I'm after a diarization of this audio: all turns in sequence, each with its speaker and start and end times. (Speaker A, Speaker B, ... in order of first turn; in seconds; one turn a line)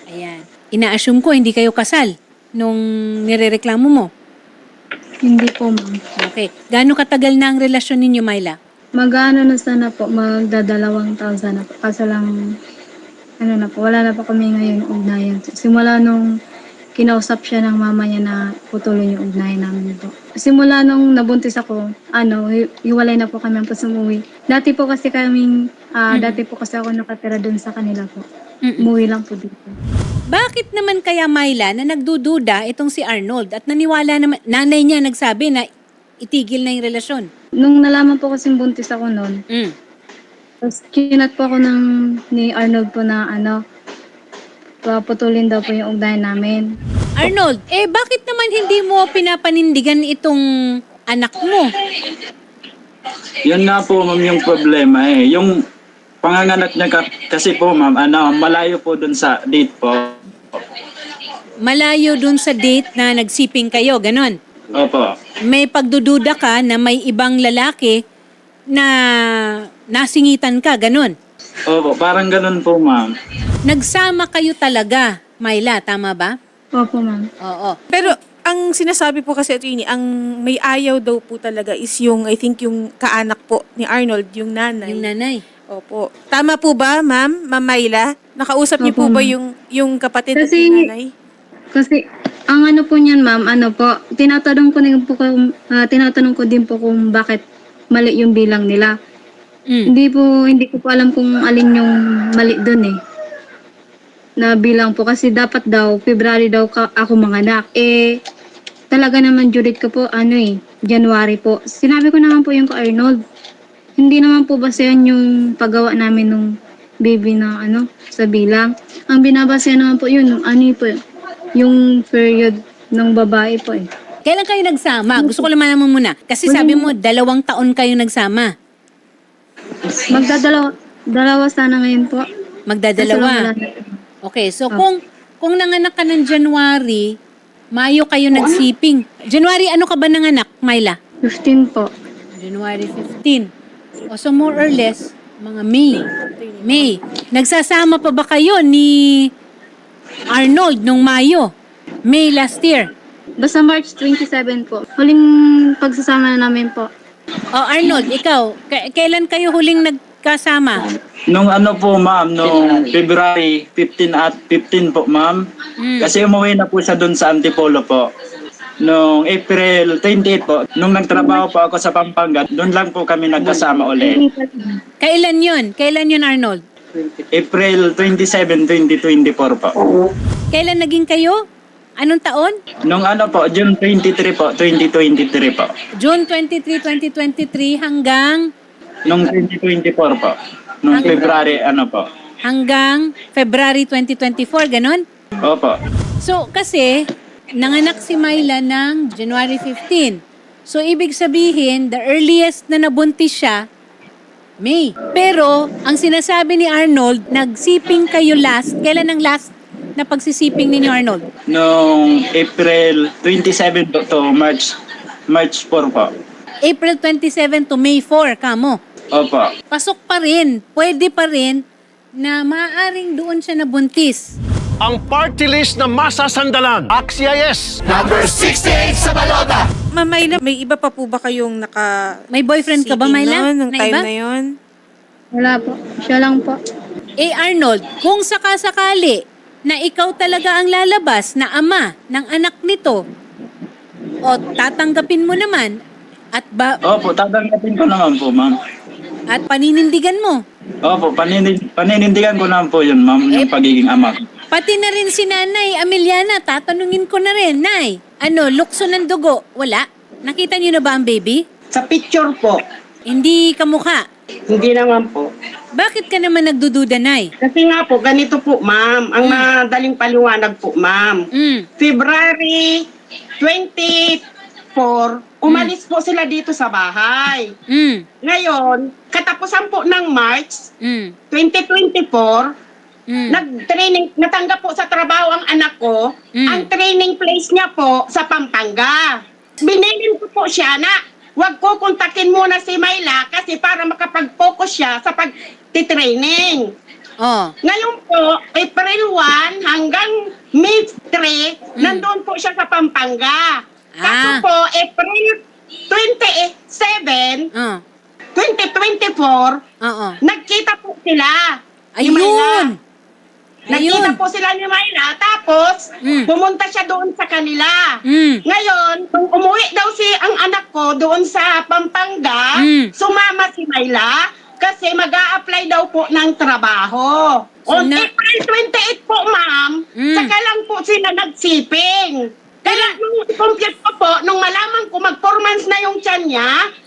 Speaker A: 0.1-4.1
Speaker B: 5.2-5.9
Speaker A: 6.2-8.6
Speaker B: 9.0-12.3
Speaker B: 13.4-16.2
Speaker B: 17.0-25.5
Speaker B: 26.0-28.2
Speaker A: 26.1-26.4
Speaker B: 28.8-29.7
Speaker A: 30.3-35.6
Speaker A: 36.2-37.3
Speaker B: 37.6-39.4
Speaker B: 40.6-41.8
Speaker B: 42.4-43.6
Speaker B: 44.9-46.6
Speaker A: 47.2-50.4
Speaker A: 51.1-51.7
Speaker C: 53.5-55.6
Speaker C: 56.2-60.7
Speaker A: 61.6-64.4
Speaker C: 64.7-65.1
Speaker A: 65.5-68.0
Speaker A: 69.9-71.1
Speaker C: 71.7-73.1
Speaker A: 73.7-76.3
Speaker B: 76.8-77.2
Speaker A: 77.4-77.8
Speaker D: 77.9-85.1
Speaker A: 84.8-85.4
Speaker D: 85.7-91.1
Speaker B: 88.8-89.3
Speaker B: 90.4-90.8
Speaker B: 92.5-97.4
Speaker B: 97.9-98.9
Speaker B: 99.9-102.9
Speaker B: 104.4-108.0
Speaker B: 108.9-113.2
Speaker B: 114.0-116.5
Speaker B: 117.0-120.9
Speaker B: 121.6-123.8
Speaker A: 124.2-128.5
Speaker B: 125.2-125.5
Speaker B: 126.5-126.9
Speaker B: 130.1-132.2
Speaker A: 132.7-133.4
Speaker B: 133.0-133.9
Speaker A: 134.3-137.1
Speaker A: 137.8-141.0
Speaker B: 141.3-141.9
Speaker A: 142.4-143.5
Speaker A: 144.1-146.1
Speaker D: 146.3-147.0
Speaker A: 146.6-149.3
Speaker A: 150.3-151.5
Speaker A: 152.1-152.9
Speaker B: 153.4-155.2
Speaker B: 155.8-156.9
Speaker A: 157.5-160.9
Speaker C: 161.3-165.5
Speaker A: 165.8-166.1
Speaker C: 166.0-168.1
Speaker C: 168.8-174.2
Speaker A: 175.0-176.6
Speaker C: 177.3-179.7
Speaker A: 180.5-181.4
Speaker A: 182.0-182.6
Speaker C: 182.8-185.7
Speaker A: 186.0-188.5
Speaker C: 189.1-192.1
Speaker A: 190.9-191.3
Speaker A: 192.4-195.0
Speaker C: 195.4-195.8
Speaker A: 196.2-197.0
Speaker A: 197.6-203.6
Speaker A: 204.6-211.3
Speaker C: 211.5-214.8
Speaker C: 215.3-216.1
Speaker A: 216.7-218.8
Speaker C: 219.1-219.5
Speaker A: 219.7-221.6
Speaker A: 222.2-224.3
Speaker E: 224.8-229.5
Speaker D: 230.0-231.9
Speaker A: 232.3-234.1
Speaker D: 232.7-234.5
Speaker B: 235.3-236.6
Speaker A: 237.2-243.0
Speaker A: 244.3-245.8
Speaker A: 246.3-246.8
Speaker C: 246.8-248.6
Speaker A: 249.3-250.4
Speaker C: 250.8-254.3
Speaker A: 254.5-261.4
Speaker F: 261.7-262.6
Speaker A: 263.1-264.0
Speaker F: 264.5-265.3
Speaker A: 265.8-267.3
Speaker F: 267.4-271.2
Speaker A: 269.2-269.5
Speaker A: 271.3-271.7
Speaker F: 271.8-272.8
Speaker F: 273.4-274.2
Speaker F: 274.8-277.5
Speaker A: 275.5-275.7
Speaker A: 277.7-278.1
Speaker F: 278.2-280.6
Speaker A: 280.8-281.1
Speaker F: 281.3-282.5
Speaker A: 283.1-283.4
Speaker F: 283.3-296.6
Speaker A: 286.4-286.7
Speaker A: 297.2-297.5
Speaker F: 297.6-305.4
Speaker A: 301.8-302.1
Speaker A: 304.0-304.4
Speaker F: 305.9-307.4
Speaker A: 307.5-307.8
Speaker F: 308.4-309.6
Speaker A: 309.8-310.2
Speaker F: 310.2-312.7
Speaker A: 312.0-312.8
Speaker F: 313.7-336.6
Speaker A: 313.7-314.2
Speaker A: 316.0-316.3
Speaker A: 318.1-318.4
Speaker A: 322.6-322.9
Speaker A: 327.7-328.1
Speaker A: 330.0-330.3
Speaker A: 332.7-332.9